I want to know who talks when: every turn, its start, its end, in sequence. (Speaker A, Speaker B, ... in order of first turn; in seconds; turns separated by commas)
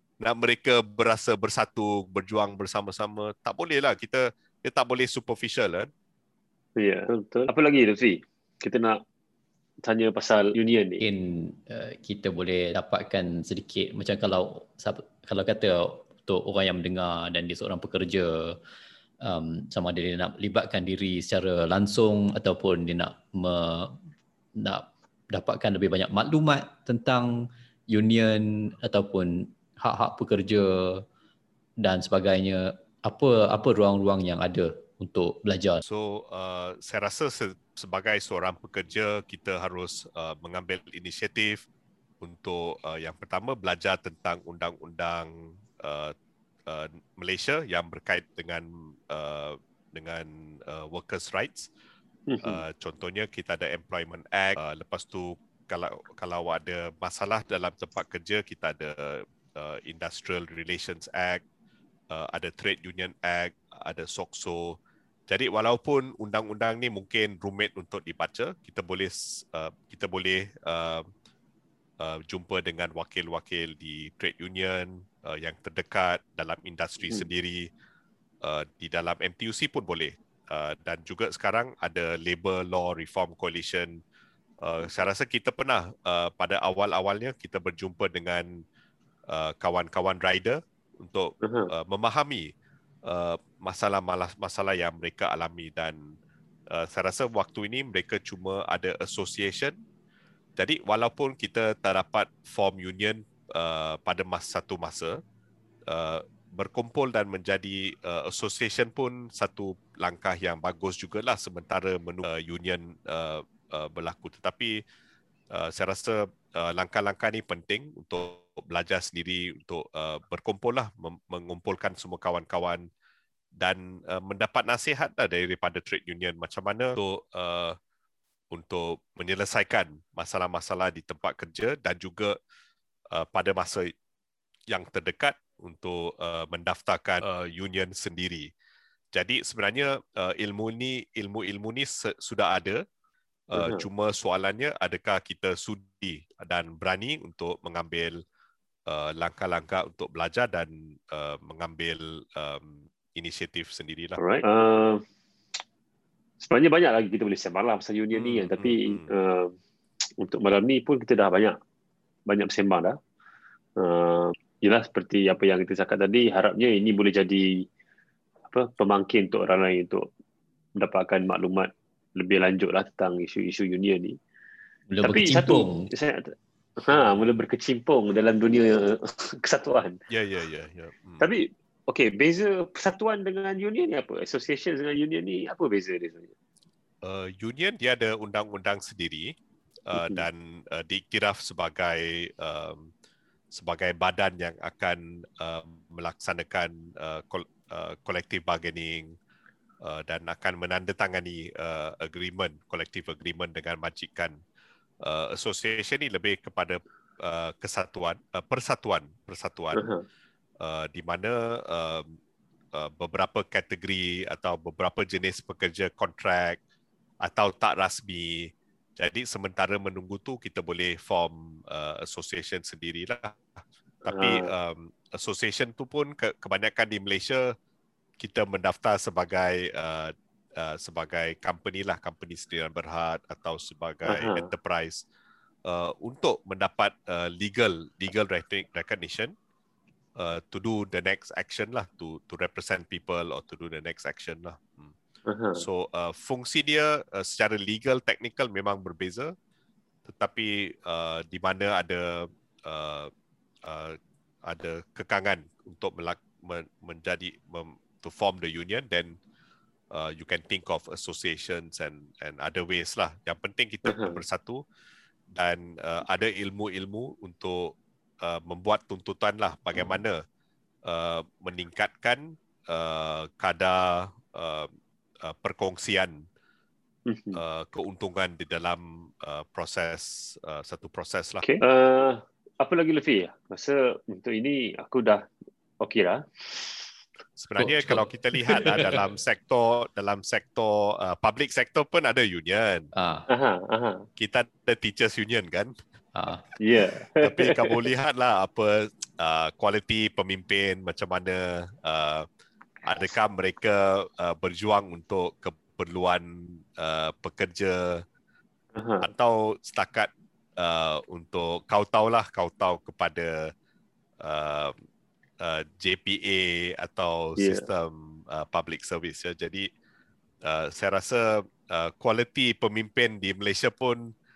Speaker A: 0.2-5.9, Speaker B: 6.8-9.0, Speaker B: 9.8-11.0, Speaker C: 11.0-18.6, Speaker C: 19.2-24.0, Speaker C: 24.6-31.1, Speaker C: 31.8-35.8, Speaker A: 35.8-41.6, Speaker A: 42.2-46.1, Speaker A: 46.7-51.7, Speaker B: 52.3-52.6, Speaker A: 52.4-61.4, Speaker A: 62.1-71.1, Speaker A: 72.0-77.7, Speaker A: 78.4-84.0, Speaker A: 84.6-88.6, Speaker A: 89.3-92.5, Speaker B: 91.4-91.7, Speaker A: 93.0-96.1, Speaker A: 96.7-99.8, Speaker A: 100.6-105.2, Speaker A: 105.9-114.8, Speaker A: 115.5-122.9, Speaker A: 123.5-127.8, Speaker A: 128.5-132.4, Speaker A: 133.1-133.9, Speaker A: 134.7-138.5, Speaker A: 139.1-142.8, Speaker A: 143.5-148.2, Speaker B: 143.6-143.8, Speaker A: 148.9-154.2, Speaker B: 154.2-155.0, Speaker B: 156.4-159.6, Speaker A: 158.1-159.1, Speaker B: 160.2-161.6, Speaker B: 162.3-163.0, Speaker B: 163.8-167.6, Speaker B: 168.5-170.1, Speaker B: 170.8-174.2, Speaker C: 174.9-175.9, Speaker B: 175.0-180.0, Speaker A: 180.1-181.3, Speaker B: 181.2-186.3, Speaker A: 187.0-189.3, Speaker A: 189.9-192.9, Speaker B: 189.9-190.3, Speaker A: 193.5-199.2, Speaker A: 199.8-204.4, Speaker A: 205.0-209.9, Speaker B: 209.7-210.0, Speaker A: 210.6-212.2, Speaker A: 212.7-216.6, Speaker A: 217.2-223.4, Speaker A: 224.1-227.5, Speaker B: 224.1-224.4, Speaker A: 228.2-235.0, Speaker B: 234.1-234.5, Speaker A: 235.7-239.3, Speaker A: 240.2-244.9, Speaker B: 245.3-245.7, Speaker A: 245.6-249.3, Speaker A: 250.1-253.1, Speaker A: 253.6-259.2, Speaker A: 259.9-264.6, Speaker B: 263.9-264.2, Speaker A: 265.3-270.2, Speaker A: 270.8-274.7, Speaker A: 275.2-276.2, Speaker B: 277.1-277.4, Speaker A: 277.3-281.4, Speaker B: 281.4-285.2, Speaker B: 285.8-286.9, Speaker A: 287.4-292.9, Speaker C: 287.6-288.9, Speaker C: 292.9-293.3, Speaker B: 293.3-294.1, Speaker A: 294.2-295.8, Speaker C: 296.1-296.5, Speaker B: 296.6-297.9, Speaker A: 297.2-302.3, Speaker A: 302.8-308.0, Speaker B: 308.7-309.1, Speaker A: 309.0-313.5, Speaker A: 314.2-314.8, Speaker A: 315.4-319.7, Speaker B: 317.4-317.7, Speaker A: 320.4-324.1